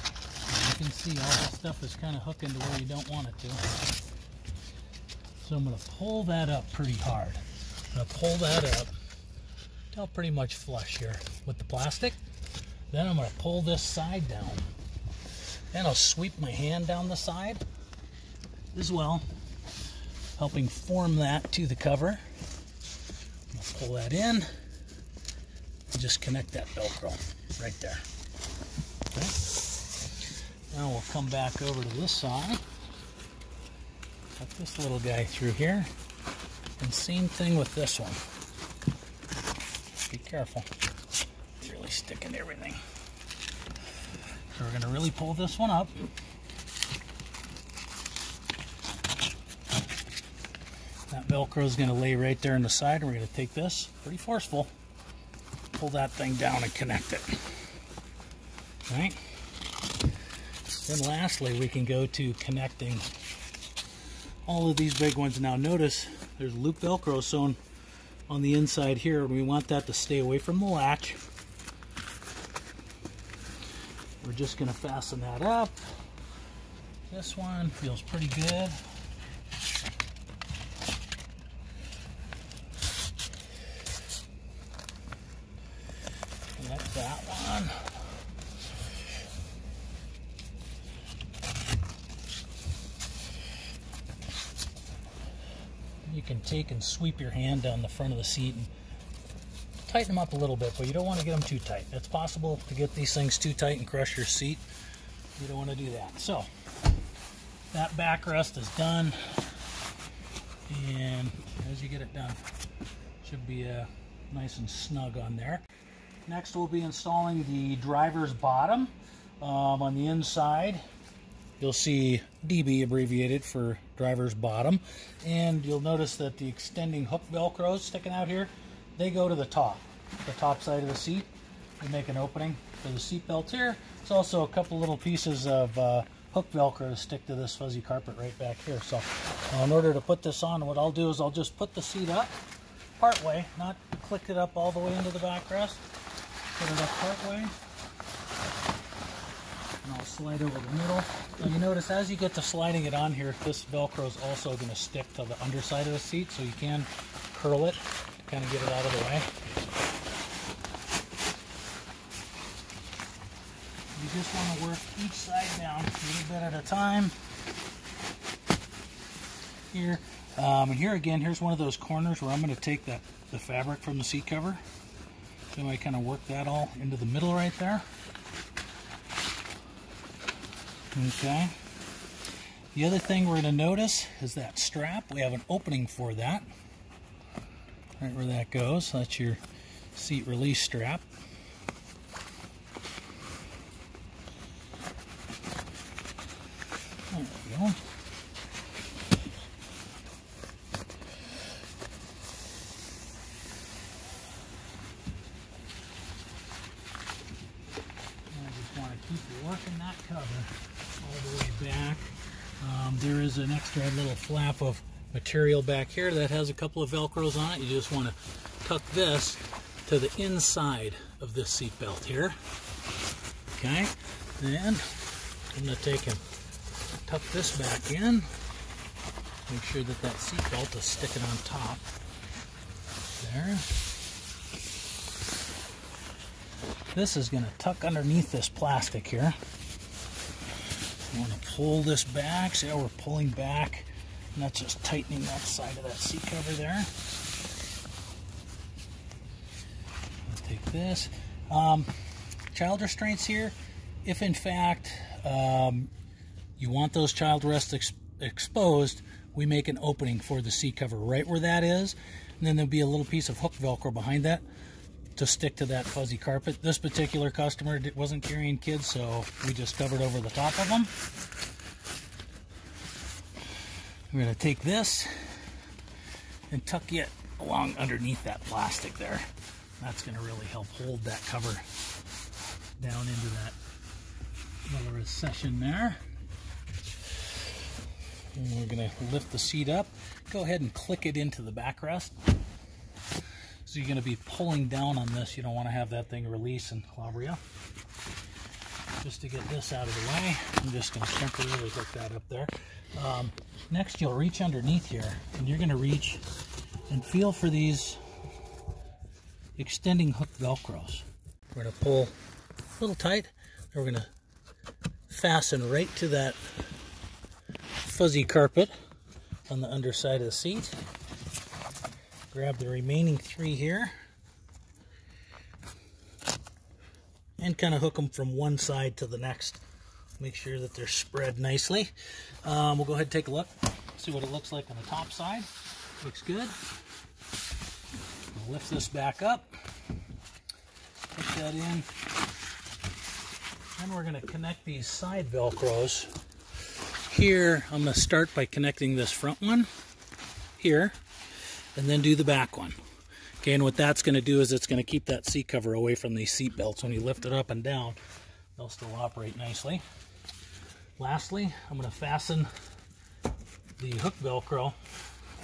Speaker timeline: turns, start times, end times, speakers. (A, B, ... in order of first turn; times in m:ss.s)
0:00.5-0:03.6 A
0:05.4-0:08.9 A
0:09.9-0:12.2 A
0:12.9-0:14.6 A
0:15.7-0:17.6 A
0:18.7-0:19.2 A
0:20.4-0:22.2 A
0:23.5-0:24.5 A
0:25.9-0:28.0 A
0:29.1-0:29.5 A
0:30.7-0:32.6 A
0:34.3-0:35.9 A
0:36.8-0:38.2 A
0:40.1-0:40.7 A
0:41.6-0:42.8 A
0:44.5-0:46.0 A
0:51.1-0:54.7 A
0:55.7-0:57.5 A
0:58.9-0:59.2 A
1:00.8-1:03.1 A
1:04.4-1:07.6 A
1:08.3-1:11.2 A
1:14.2-1:15.8 A
1:17.1-1:18.8 A
1:26.6-1:27.8 A
1:36.0-1:38.7 A
1:39.8-1:44.6 A
1:45.4-1:46.5 A
1:47.7-1:49.4 A
1:50.7-1:52.4 A
1:53.2-1:55.6 A
1:56.2-2:00.8 A
2:01.6-2:22.4 A
2:23.0-2:25.8 A
2:26.6-2:27.5 A
2:29.8-2:39.3 A
2:43.9-2:47.1 A
2:49.7-2:54.6 A
2:55.5-2:57.8 A
3:00.9-3:01.5 A
3:02.7-3:06.5 A
3:08.0-3:09.4 A
3:09.9-3:11.0 A
3:17.1-3:17.8 A
3:28.3-3:42.4 A
3:43.5-3:44.9 A
3:45.5-3:46.2 A
3:47.0-3:48.3 A
3:49.5-3:51.8 A
3:53.2-3:53.7 A
3:56.9-3:59.4 A
4:01.1-4:07.0 A
4:10.2-4:11.9 A
4:12.5-4:15.9 A
4:16.6-4:24.4 A
4:25.2-4:30.9 A
4:34.1-4:35.1 A
4:36.5-4:39.3 A
4:39.8-4:41.6 A
4:42.8-4:43.6 A
4:44.7-4:46.0 A
4:48.3-4:52.1 A
4:53.6-4:57.4 A
4:59.0-5:06.2 A
5:06.9-5:08.0 A
5:09.6-5:12.2 A
5:12.8-5:14.1 A
5:15.1-5:16.4 A
5:17.8-5:18.7 A
5:19.5-5:20.8 A
5:22.3-5:23.9 A
5:27.4-5:29.6 A
5:30.2-5:35.5 A
5:36.0-5:36.5 A
5:38.3-5:39.5 A
5:41.1-5:41.9 A
5:43.8-5:46.1 A
5:47.1-5:49.7 A
5:50.6-5:51.0 A
5:51.8-5:52.8 A
5:53.4-5:58.0 A
5:58.6-5:59.8 A
6:01.0-6:02.5 A
6:03.8-6:04.8 A